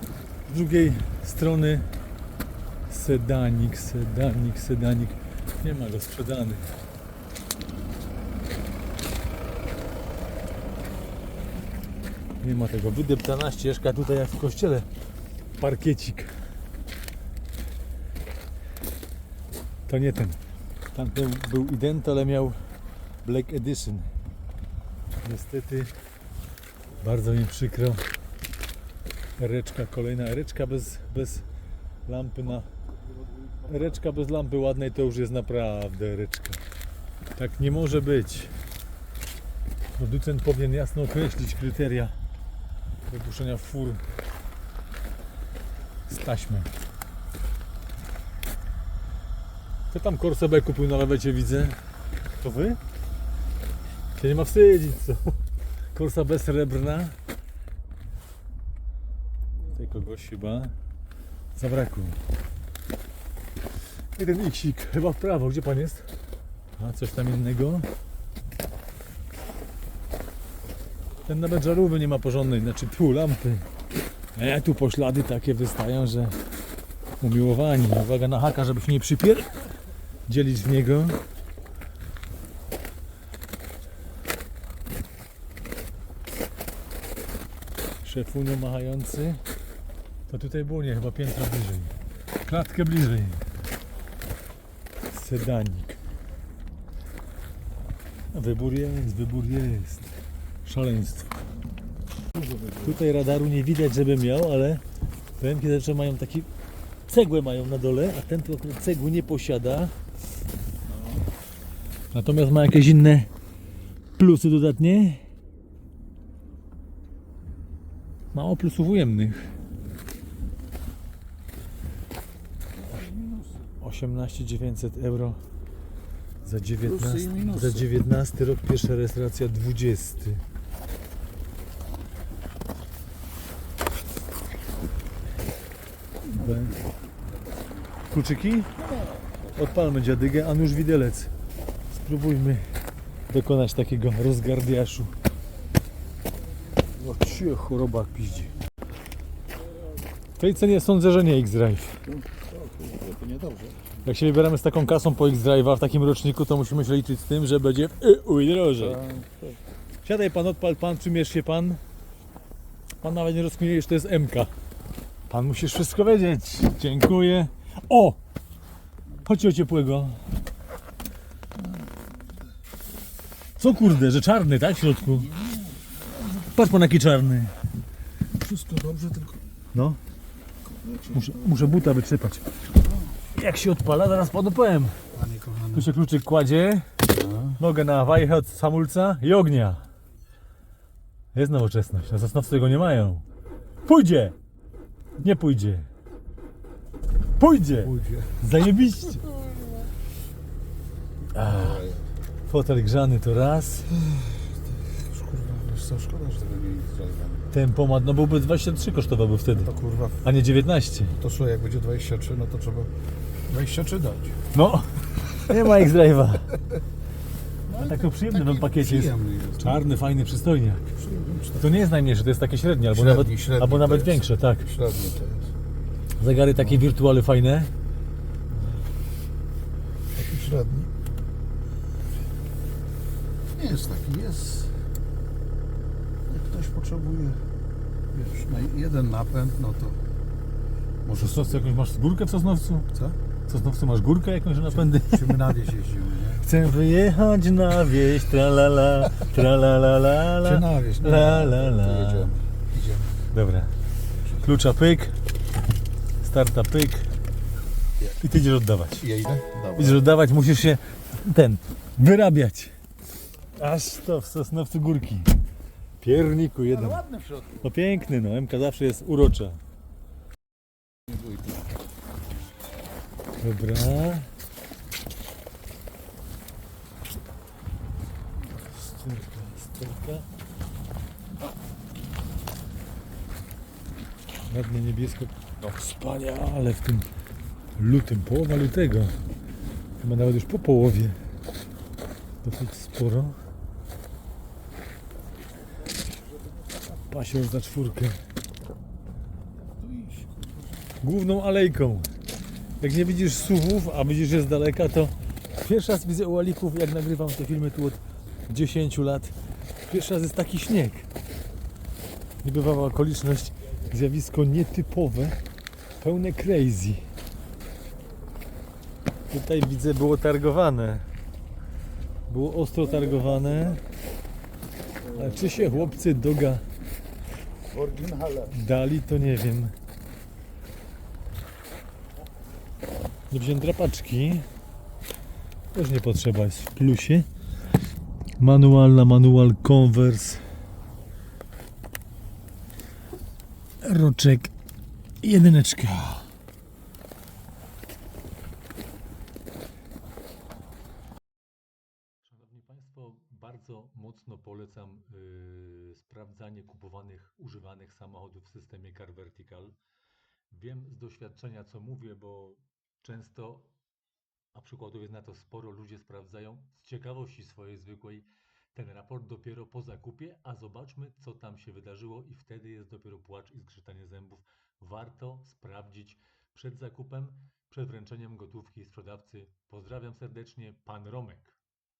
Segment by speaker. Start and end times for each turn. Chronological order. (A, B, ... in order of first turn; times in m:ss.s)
0:00.4-0:01.9 A
0:02.9-0:06.7 A
0:12.4-0:14.9 A
0:15.6-0:16.4 A
0:19.9-0:20.4 A
0:20.9-0:22.6 A
0:23.2-0:24.1 A
0:25.2-0:25.9 A
0:27.0-0:28.1 A
0:29.4-0:31.5 A
0:32.0-0:32.7 A
0:33.6-0:36.6 A
0:37.4-0:38.5 A
0:40.0-0:42.1 A
0:43.1-0:44.0 A
0:46.1-0:46.7 A
0:49.9-0:51.8 A
0:52.4-0:52.8 A
0:54.1-0:55.4 A
0:55.9-0:57.2 A
0:59.7-1:00.7 A
1:01.6-1:02.2 A
1:04.2-1:06.1 A
1:06.8-1:07.9 A
1:11.2-1:13.7 A
1:14.3-1:16.4 A
1:17.2-1:19.7 A
1:20.2-1:21.2 A
1:28.0-1:29.4 A
1:30.3-1:33.5 A
1:35.1-1:36.0 A
1:38.3-1:41.3 A
1:42.6-1:44.8 A
1:45.4-1:46.5 A
1:47.1-1:50.0 A
1:52.1-1:53.3 A
1:54.2-1:55.2 A
1:58.3-1:59.5 A
2:02.9-2:03.4 B
2:03.8-2:05.4 A
2:06.4-2:10.4 A
2:06.9-2:07.8 B
2:16.3-2:16.8 A
2:18.1-2:18.7 A
2:19.5-2:21.3 A
2:21.9-2:22.7 A
2:23.3-2:25.1 A
2:26.9-2:28.5 A
2:30.4-2:32.0 A
2:32.1-2:33.8 B
2:34.0-2:39.0 A
2:38.8-2:39.6 B
2:40.0-2:41.8 A
2:43.0-2:44.5 A
2:45.3-2:48.2 A
2:49.2-2:50.2 A
2:53.6-2:55.4 A
2:56.3-2:57.6 A
2:58.4-2:59.4 B
2:59.7-3:00.0 A
3:00.8-3:01.2 B
3:01.1-3:02.5 A
3:03.3-3:05.0 A
3:05.1-3:05.9 B
3:05.7-3:07.0 A
3:07.1-3:07.6 B
3:07.6-3:09.8 A
3:11.3-3:13.2 A
3:13.8-3:14.3 A
3:15.2-3:15.9 A
3:17.4-3:19.3 A
3:17.8-3:18.3 B
3:21.3-3:21.8 A
3:21.4-3:22.1 B
3:22.5-3:23.9 A
3:23.9-3:27.4 B
3:27.5-3:31.2 A
3:29.6-3:30.2 B
3:31.1-3:32.9 B
3:33.4-3:34.4 B
3:34.5-3:36.6 A
3:37.7-3:40.8 A
3:37.7-3:39.8 B
3:41.0-3:41.6 B
3:41.6-3:44.7 A
3:42.9-3:45.5 B
3:46.2-3:47.7 A
3:50.1-3:50.9 B
3:53.5-3:54.7 B
3:56.3-3:57.4 B
3:58.1-4:00.0 B
4:01.0-4:01.7 B
4:01.2-4:02.9 A
4:03.5-4:05.5 A
4:04.7-4:06.4 B
4:06.3-4:12.3 A
4:10.4-4:13.2 B
4:13.3-4:13.7 A
4:14.4-4:15.2 A
4:16.2-4:17.1 A
4:18.2-4:19.1 A
4:19.0-4:20.0 B
4:19.7-4:22.7 A
4:23.5-4:25.3 A
4:26.0-4:27.1 A
4:26.9-4:27.5 B
4:27.6-4:29.6 A
4:31.1-4:31.5 B
4:33.4-4:34.3 A
4:38.5-4:40.3 A
4:44.4-4:47.1 A
4:47.8-4:49.2 A
4:50.0-4:51.2 A
4:52.4-4:53.4 A
4:57.0-4:58.2 A
4:59.7-5:00.8 B
5:01.0-5:02.1 A
5:02.8-5:11.1 A
5:12.4-5:15.4 A
5:16.0-5:17.0 A
5:19.3-5:21.1 A
5:22.3-5:23.8 A
5:25.1-5:26.7 A
5:27.7-5:28.5 B
5:28.5-5:29.7 A
5:33.3-5:34.5 A
5:35.7-5:37.3 A
5:38.4-5:40.4 A
5:43.8-5:44.5 A
5:45.2-5:46.3 A
5:52.2-5:59.8 A
6:00.5-6:03.7 A
6:04.5-6:21.6 A